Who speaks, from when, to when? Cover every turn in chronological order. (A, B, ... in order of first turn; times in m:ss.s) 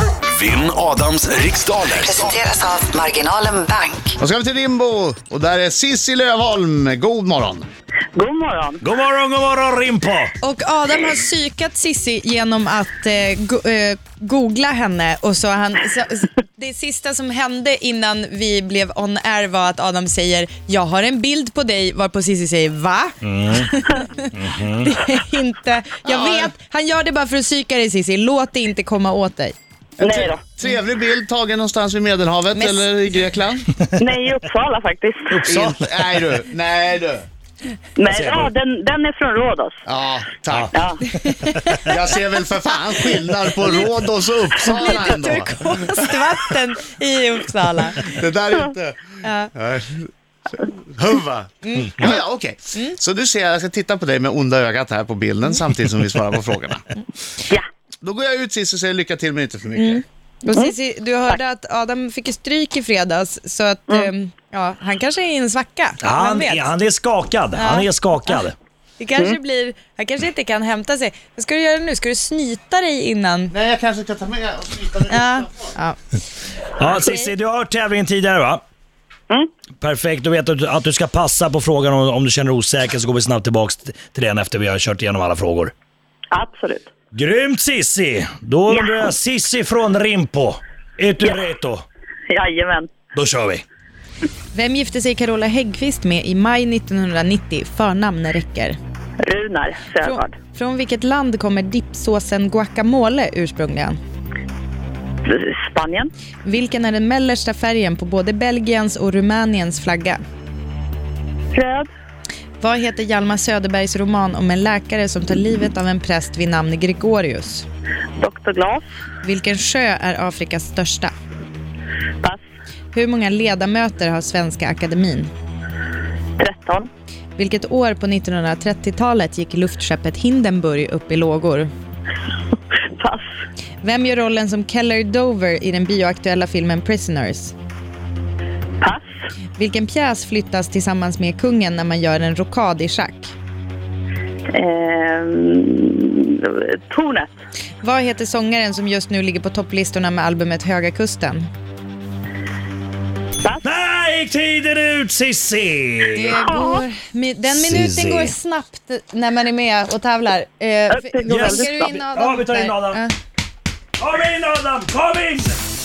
0:00.3-0:02.4 A
0:02.1-0:04.2 B
0:04.2-0:07.7 C
0:08.2-0:08.8 D
0:08.8-0:10.3 E
0:10.4-0:29.6 F
0:23.2-0:23.7 E
0:24.3-0:24.9 E
0:26.0-0:26.5 C
0:30.0-0:30.4 D
0:30.0-0:33.7 C
0:32.6-0:32.9 F
0:34.0-0:35.4 D
0:35.3-0:35.8 E
0:35.5-0:37.2 C
0:38.0-0:39.8 D
0:38.1-0:38.5 E
0:39.9-0:40.8 C
0:40.7-0:41.0 D
0:41.1-0:42.0 F
0:41.2-0:41.8 E
0:41.7-0:46.2 C
0:44.6-0:48.2 F
0:48.0-0:56.9 C
0:49.2-0:49.5 F
0:51.6-0:52.2 F
0:58.0-1:00.0 C
0:59.8-1:06.8 F
1:06.0-1:08.6 E
1:07.6-1:08.4 F
1:09.0-1:13.5 F
1:13.5-1:15.6 C
1:15.1-1:16.0 F
1:16.8-1:18.6 E
1:16.9-1:17.3 F
1:19.8-1:25.7 E
1:26.3-1:26.9 D
1:27.1-1:31.8 E
1:28.7-1:29.1 D
1:32.3-1:32.9 D
1:33.1-1:33.6 E
1:34.5-1:38.8 F
1:39.2-1:40.3 D
1:40.0-1:44.0 F
1:45.3-1:46.1 D
1:46.4-1:50.2 F
1:51.5-1:51.9 D
1:52.6-1:57.7 F
1:58.2-1:58.9 D
1:59.2-2:01.1 F
2:02.9-2:05.3 F
2:06.4-2:06.9 D
2:07.4-2:11.7 F
2:13.0-2:13.2 D
2:13.8-2:17.5 F
2:19.6-2:23.3 F
2:24.5-2:27.3 D
2:27.8-2:31.5 F
2:33.6-2:36.5 E
2:36.1-2:43.1 F
2:36.5-2:36.8 D
2:37.5-2:38.4 E
2:40.9-2:42.0 D
2:41.2-2:43.0 E
2:44.0-2:45.6 E